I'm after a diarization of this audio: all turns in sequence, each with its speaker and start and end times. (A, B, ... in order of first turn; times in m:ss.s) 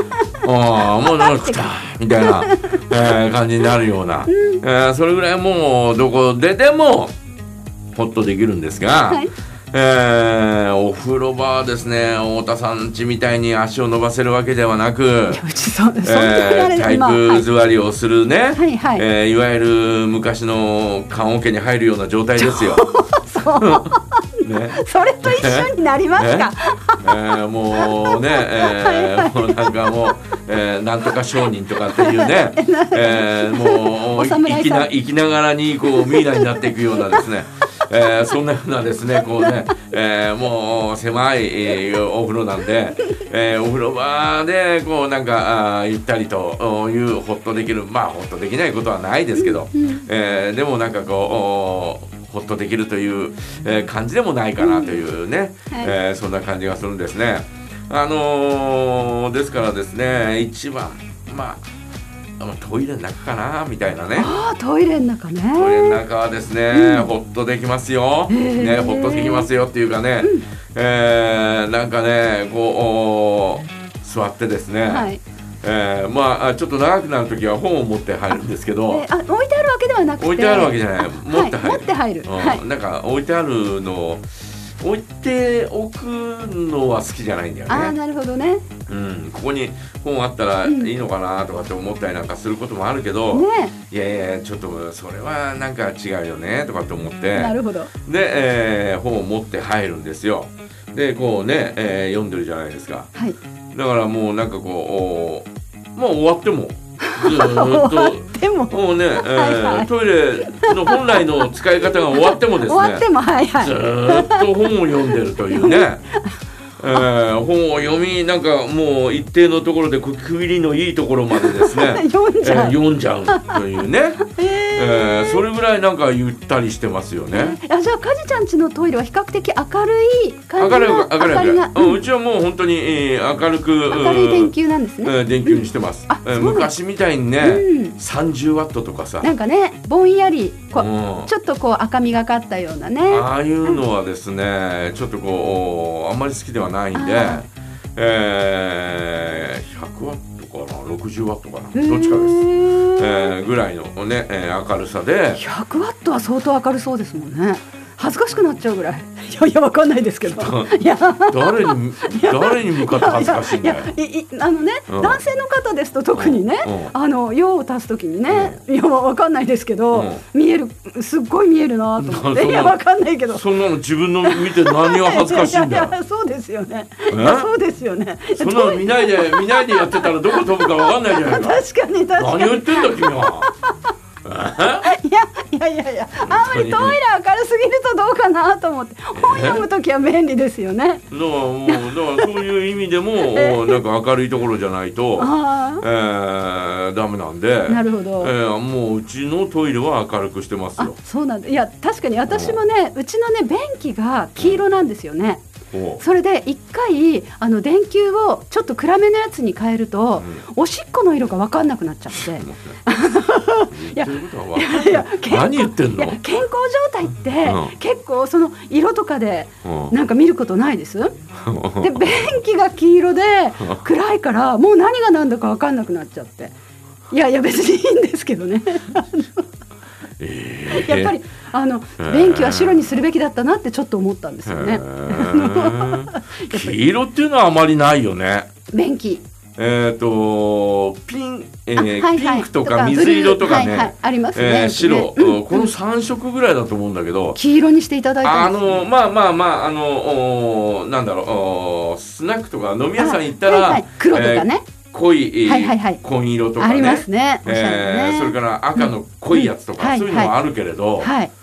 0:00.4-0:07.1 A
0:01.0-0:03.0 B
0:04.3-0:04.6 B
0:08.0-0:15.4 A
0:15.3-0:17.5 B
0:16.0-0:22.8 A
0:18.6-0:19.0 B
0:22.4-0:24.2 B
0:23.6-0:23.9 A
0:24.4-0:26.5 A
0:24.7-0:30.1 B
0:27.0-1:01.6 A
0:31.9-0:34.9 B
0:35.9-0:37.2 B
0:49.4-0:50.1 B
0:54.6-0:55.0 B
1:02.4-1:04.3 A
1:04.2-1:06.0 B
1:05.6-1:15.1 A
1:06.7-1:07.1 B
1:08.3-1:09.5 B
1:10.2-1:10.5 B
1:14.9-1:15.2 B
1:15.6-1:19.1 A
1:18.9-1:22.6 B
1:20.2-1:28.0 A
1:27.7-1:28.7 B
1:28.9-1:43.1 A
1:30.6-1:30.9 B
1:33.3-1:33.7 B
1:37.4-1:37.9 B
1:43.7-1:53.0 A
1:47.0-1:49.9 B
1:50.4-1:51.5 B
1:52.1-1:54.7 B
1:53.6-1:56.0 A
1:55.5-1:56.4 B
1:56.8-2:07.6 A
2:01.3-2:03.6 B
2:04.2-2:05.4 B
2:07.3-2:12.0 B
2:10.6-2:14.5 A
2:13.9-2:16.7 B
2:15.0-2:19.3 A
2:17.4-2:18.0 B
2:19.2-2:23.8 B
2:20.8-2:21.3 A
2:23.1-2:35.4 A
2:27.0-2:27.4 B
2:31.7-2:33.3 B
2:35.4-2:53.4 B
2:40.2-2:40.8 A
2:41.3-2:43.9 A
2:44.9-2:45.2 A
2:46.2-2:46.9 A
2:48.3-2:48.6 A
2:49.9-2:50.2 A
2:52.0-2:52.8 A
2:53.3-2:56.0 A
2:54.2-3:03.9 B
2:57.1-2:57.5 A
2:58.4-3:01.6 A
3:02.2-3:03.5 A
3:04.2-3:04.9 A
3:04.8-3:11.1 B
3:06.2-3:07.0 A
3:09.1-3:09.6 A
3:11.1-3:21.0 A
3:11.7-3:12.5 B
3:13.3-3:13.8 B
3:15.2-3:15.8 B
3:17.7-3:18.3 B
3:20.8-3:25.4 B
3:22.3-3:22.6 A
3:25.7-3:26.0 A
3:26.0-3:41.2 B
3:30.2-3:30.4 A
3:32.2-3:32.8 A
3:33.7-3:36.2 A
3:37.4-3:37.7 A
3:39.6-3:40.0 A
3:41.4-3:42.4 A
3:41.8-3:46.5 B
3:47.1-3:49.4 B
3:50.2-3:51.2 A
3:50.7-3:56.7 B
3:52.0-3:52.8 A
3:54.5-3:58.5 A
3:58.7-3:59.2 B
3:59.6-4:07.4 A
4:01.8-4:05.7 B
4:07.4-4:08.8 B
4:08.2-4:21.1 A
4:13.0-4:14.7 B
4:15.4-4:16.0 B
4:16.6-4:20.3 B
4:21.0-4:21.3 B